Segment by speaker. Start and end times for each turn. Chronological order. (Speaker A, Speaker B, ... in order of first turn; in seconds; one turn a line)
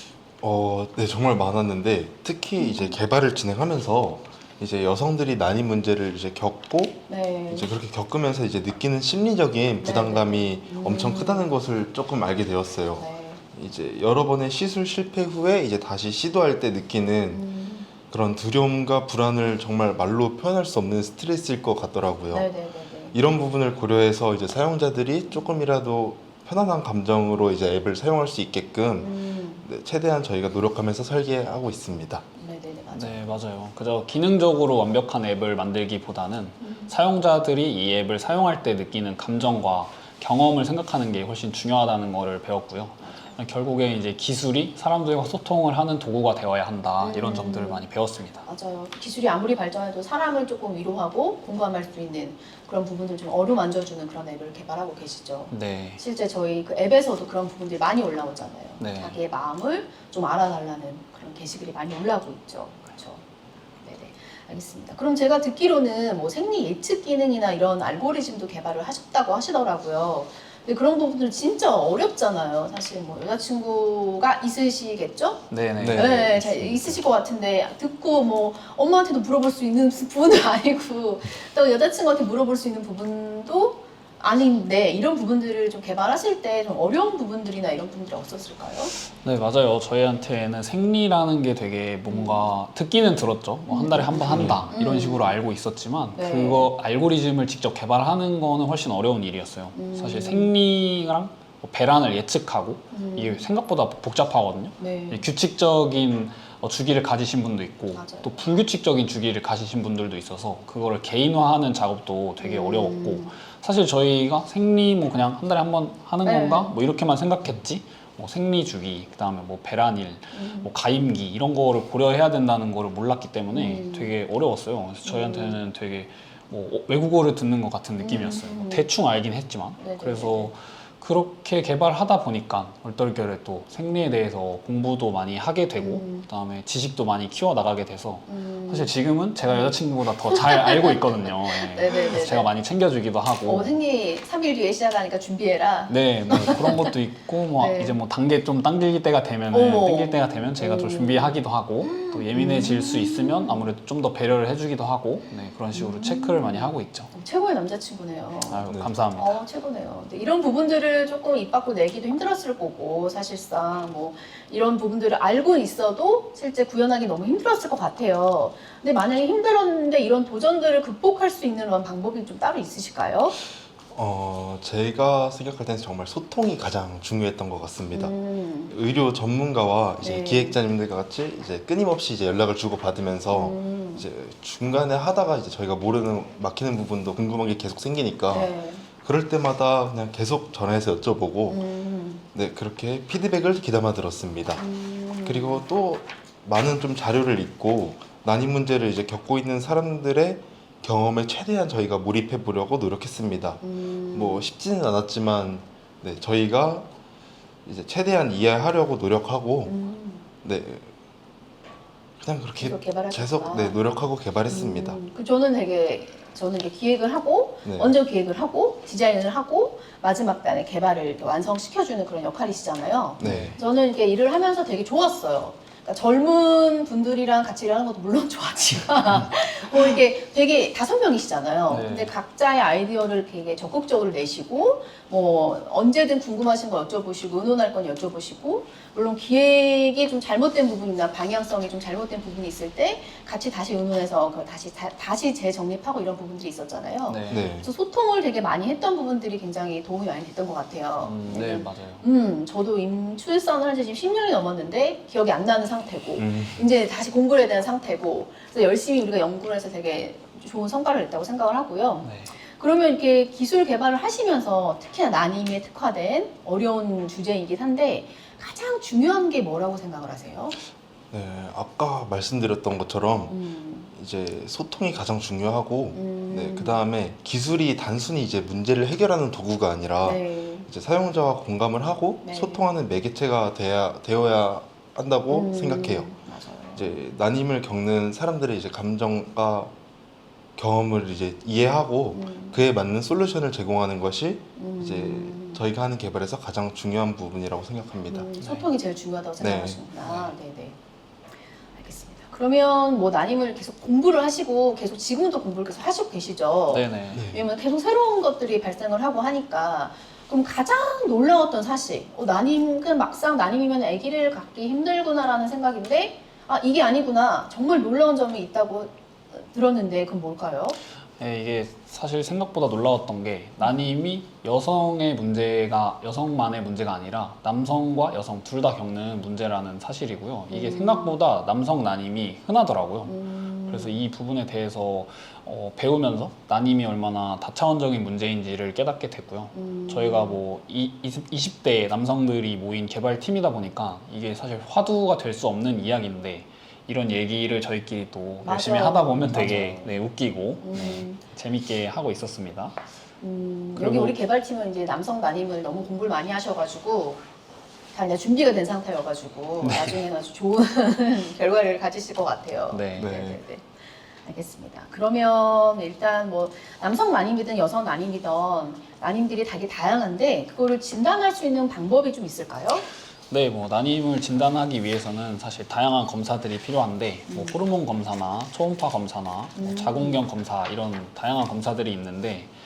Speaker A: 0.4-17.4
Speaker B: 2.6-3.0
Speaker B: 7.1-7.7
Speaker B: 9.8-11.5
Speaker B: 12.9-13.4
Speaker B: 17.3-17.9
Speaker A: 18.1-22.5
Speaker B: 22.3-23.1
Speaker A: 23.1-32.2
Speaker B: 29.0-29.6
Speaker B: 32.4-33.3
Speaker C: 32.9-48.5
Speaker B: 36.6-36.9
Speaker B: 43.0-43.4
Speaker B: 47.0-47.8
Speaker B: 48.4-63.2
Speaker C: 55.5-56.0
Speaker C: 58.8-59.2
Speaker B: 63.8-89.0
Speaker C: 75.5-76.4
Speaker A: 75.8-77.0
Speaker C: 89.2-143.8
Speaker B: 92.1-92.5
Speaker B: 93.7-95.4
Speaker A: 94.3-94.6
Speaker B: 96.1-96.7
Speaker B: 99.7-100.5
Speaker B: 102.9-103.4
Speaker B: 104.8-105.2
Speaker B: 107.9-108.4
Speaker B: 112.4-113.3
Speaker B: 116.2-116.7
Speaker B: 120.3-120.7
Speaker B: 123.5-124.1
Speaker B: 125.0-125.6
Speaker B: 128.0-128.9
Speaker B: 129.8-130.5
Speaker B: 135.8-136.3
Speaker B: 138.3-142.5
Speaker B: 143.4-146.9
Speaker C: 145.9-157.1
Speaker B: 147.6-148.0
Speaker B: 149.5-153.7
Speaker B: 155.7-173.4
Speaker C: 158.5-159.4
Speaker A: 173.9-178.1
Speaker B: 177.9-178.7
Speaker A: 178.7-191.6
Speaker B: 180.0-180.6
Speaker B: 183.3-184.1
Speaker B: 188.3-188.8
Speaker B: 191.5-192.2
Speaker A: 192.3-194.6
Speaker B: 194.6-195.6
Speaker A: 195.2-206.9
Speaker B: 203.6-204.5
Speaker A: 207.7-209.7
Speaker B: 209.6-210.3
Speaker A: 210.4-210.9
Speaker A: 212.2-215.0
Speaker B: 212.6-213.8
Speaker B: 214.4-270.6
Speaker A: 217.6-217.9
Speaker A: 223.2-223.6
Speaker C: 223.2-223.6
Speaker C: 231.7-232.1
Speaker C: 247.1-247.5
Speaker A: 247.3-247.7
Speaker C: 251.0-252.0
Speaker A: 256.1-256.7
Speaker C: 262.0-262.3
Speaker A: 271.1-273.3
Speaker B: 273.3-273.9
Speaker A: 273.9-286.1
Speaker B: 275.9-276.8
Speaker B: 280.0-280.7
Speaker B: 282.2-282.6
Speaker B: 285.3-287.0
Speaker A: 286.7-289.7
Speaker A: 290.6-298.3
Speaker B: 292.1-292.6
Speaker B: 294.6-295.6
Speaker B: 298.1-300.8
Speaker C: 298.4-298.7
Speaker A: 299.4-299.8
Speaker C: 300.0-300.3
Speaker B: 301.7-320.8
Speaker C: 306.7-307.2
Speaker A: 307.1-307.4
Speaker C: 321.2-352.8
Speaker B: 330.5-331.2
Speaker B: 333.1-334.0
Speaker B: 339.5-340.4
Speaker B: 348.4-349.9
Speaker B: 350.6-351.2
Speaker B: 353.2-357.2
Speaker C: 353.8-354.2
Speaker B: 357.9-363.6
Speaker C: 359.6-360.0
Speaker C: 362.7-363.1
Speaker A: 362.9-363.4
Speaker B: 364.2-372.8
Speaker C: 373.3-382.5
Speaker B: 377.3-377.6
Speaker B: 379.6-380.2